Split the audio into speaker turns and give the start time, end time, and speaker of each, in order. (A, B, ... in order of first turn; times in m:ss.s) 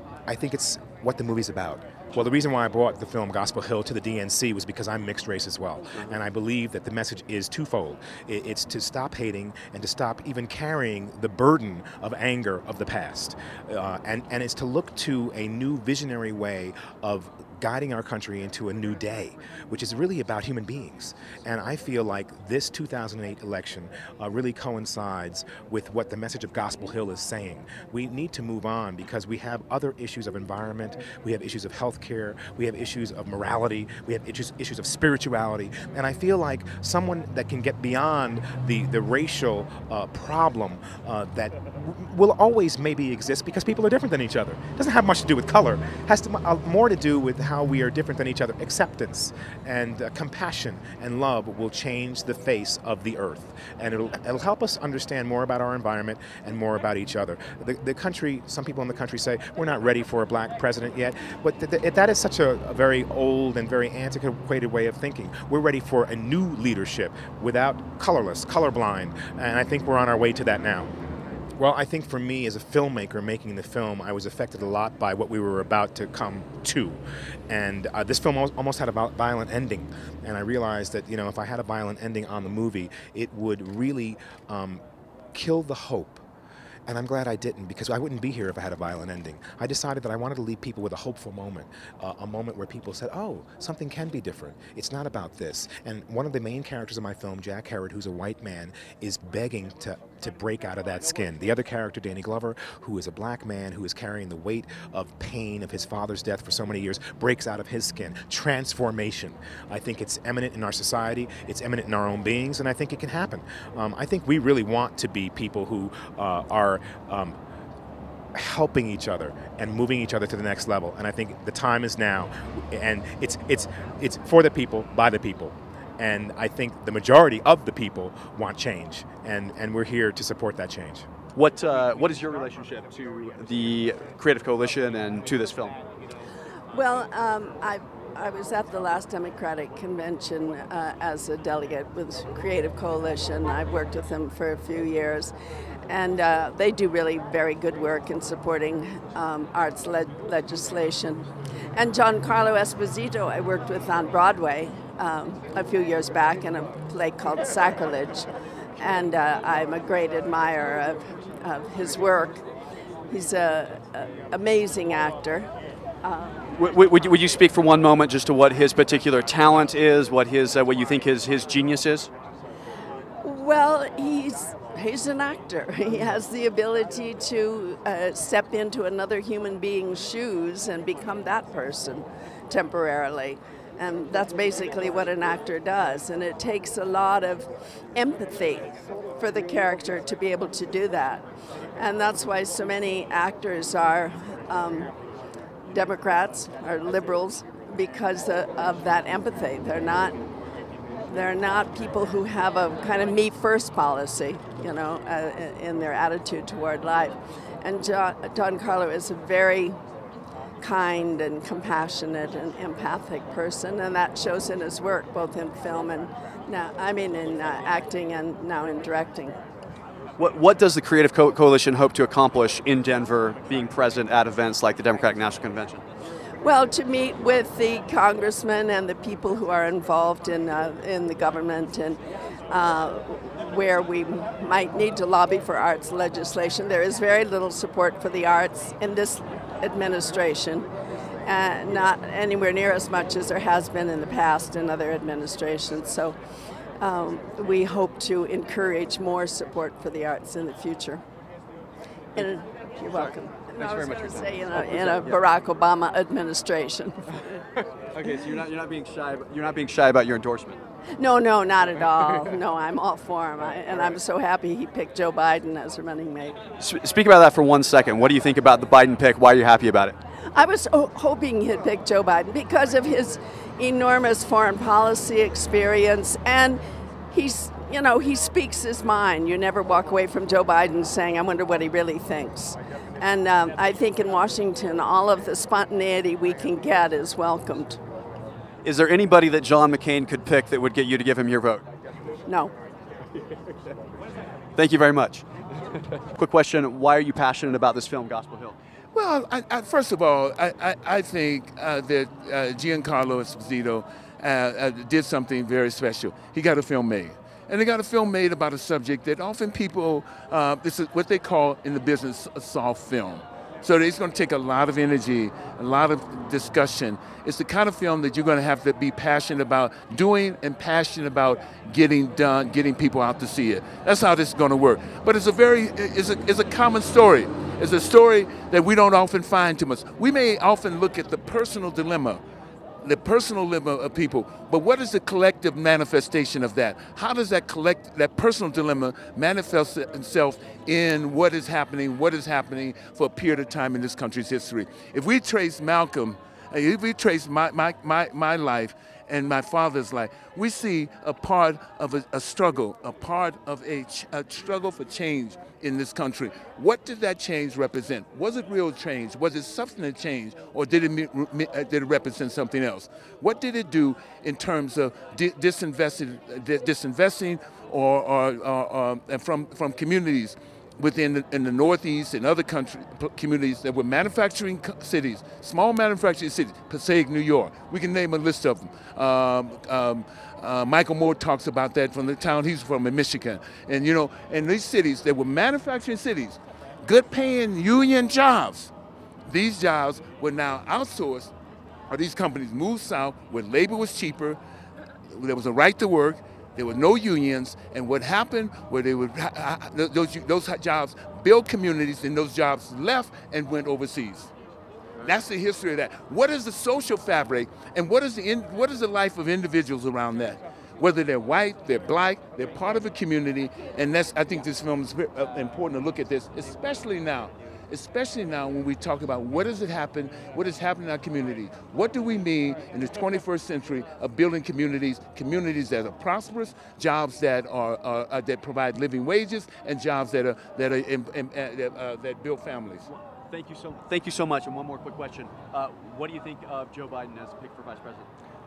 0:00.3-1:10.9 A
1:11.6-1:24.8 A
1:25.3-1:26.2 A
1:26.9-1:57.4 A
1:58.3-2:11.1 A
2:11.3-2:15.8 B
2:16.7-2:25.3 C
2:25.9-2:42.4 C
2:43.1-2:45.5 C
2:46.0-2:46.5 C
2:46.5-2:52.1 B
2:53.2-3:11.2 C
3:11.8-3:14.9 C
3:15.7-3:20.2 C
3:21.1-3:29.8 C
3:30.6-3:39.4 C
3:40.2-3:45.8 B
3:46.4-3:52.0 C
3:52.5-4:00.7 C
4:01.2-4:06.2 C
4:06.8-4:11.0 C
4:12.1-4:17.2 C
4:13.6-4:15.0 B
4:17.9-4:20.6 B
4:21.0-4:26.4 C
4:26.6-4:30.0 B
4:30.3-4:36.6 C
4:37.1-4:47.8 C
4:48.6-4:51.6 B
4:52.3-4:52.5 C
4:54.6-4:55.2 B
4:56.1-4:58.5 B
4:58.9-5:32.2 D
5:32.8-6:28.7 D
6:29.3-6:31.3 D
6:31.9-6:34.4 D
6:35.1-6:44.3 D
6:45.0-7:12.8 D
7:12.9-7:18.1 B